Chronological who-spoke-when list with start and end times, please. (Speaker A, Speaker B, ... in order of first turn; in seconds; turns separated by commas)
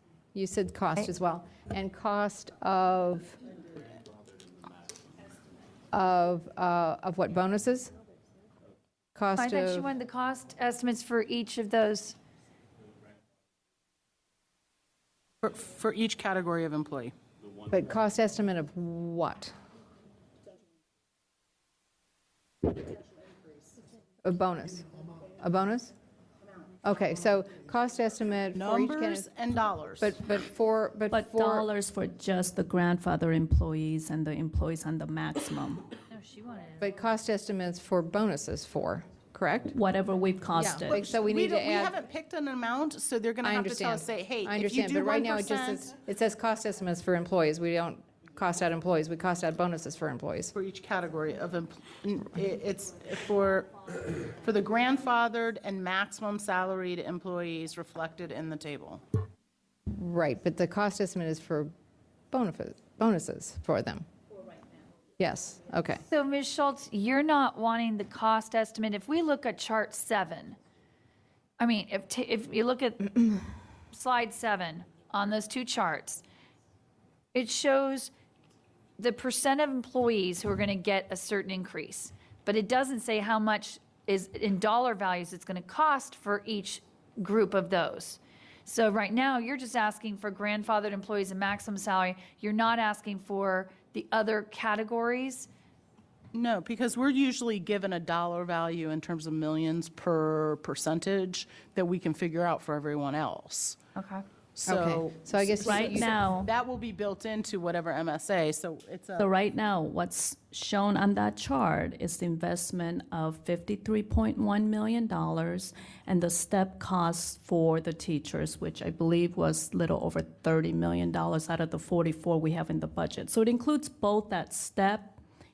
Speaker A: 0.3-3.4, Speaker A: 5.9-7.9, Speaker A: 9.2-9.9, Speaker B: 9.4-12.2, Speaker C: 15.4-17.1, Speaker A: 17.7-19.5, Speaker A: 24.2-24.9, Speaker A: 25.4-25.9, Speaker A: 26.8-29.3, Speaker C: 28.6-30.2, Speaker A: 30.0-31.7, Speaker D: 31.1-35.9, Speaker B: 36.1-36.8, Speaker A: 36.8-39.8, Speaker D: 39.7-41.0, Speaker A: 40.6-42.0, Speaker C: 40.9-45.9, Speaker A: 43.4-50.5, Speaker C: 50.5-59.0, Speaker A: 59.9-61.7, Speaker A: 62.3-64.1, Speaker A: 65.2-66.0, Speaker B: 66.1-70.6, Speaker B: 71.6-73.4, Speaker B: 73.9-76.2, Speaker B: 77.3-78.1, Speaker B: 79.0-95.5, Speaker C: 96.3-103.8, Speaker B: 104.0-104.2, Speaker C: 104.5-109.3, Speaker A: 104.7-106.2, Speaker D: 105.6-106.5, Speaker D: 109.2-125.2